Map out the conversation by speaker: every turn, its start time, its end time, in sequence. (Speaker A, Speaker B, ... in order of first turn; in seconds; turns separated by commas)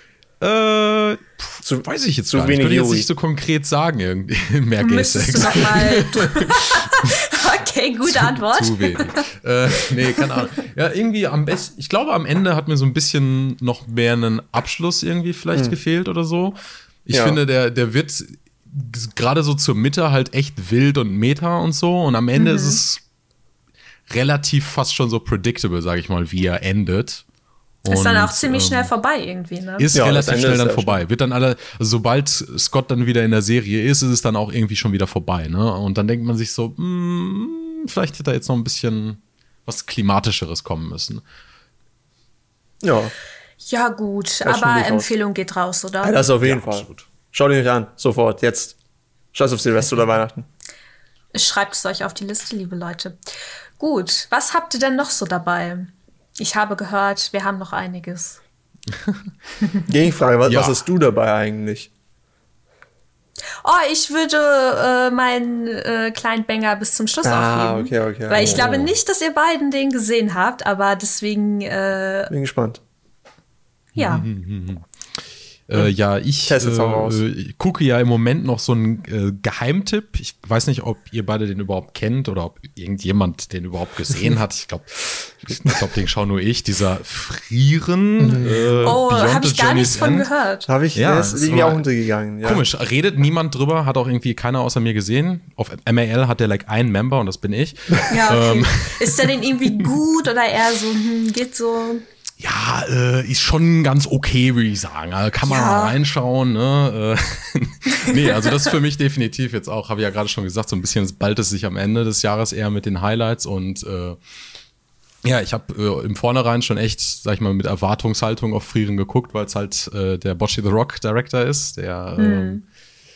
Speaker A: 0.4-7.1, Speaker B: 1.6-3.1, Speaker C: 4.8-9.2, Speaker A: 8.1-23.0, Speaker B: 17.1-17.4, Speaker C: 22.4-22.8, Speaker A: 24.1-27.2, Speaker A: 27.8-28.9, Speaker C: 27.9-29.9, Speaker A: 29.8-41.2, Speaker B: 29.9-31.0, Speaker B: 42.8-43.1, Speaker C: 43.6-46.2, Speaker B: 44.4-45.1, Speaker B: 46.0-48.8, Speaker A: 46.4-47.1, Speaker B: 49.3-50.5, Speaker C: 51.3-53.2, Speaker C: 53.8-58.4, Speaker A: 58.9-59.3, Speaker B: 59.9-61.9, Speaker A: 60.5-60.8, Speaker C: 63.6-72.3, Speaker B: 67.2-68.9, Speaker A: 68.4-68.9, Speaker B: 72.3-72.8, Speaker C: 74.0-74.2, Speaker A: 74.0-74.8, Speaker A: 75.7-90.3, Speaker B: 76.5-77.2, Speaker B: 88.2-89.0, Speaker C: 88.8-90.7, Speaker B: 90.7-92.6, Speaker A: 90.9-91.8, Speaker A: 92.4-99.9, Speaker C: 98.1-102.0, Speaker A: 102.4-114.2, Speaker C: 105.4-106.0, Speaker C: 108.0-108.5, Speaker A: 115.2-122.6, Speaker C: 122.2-122.6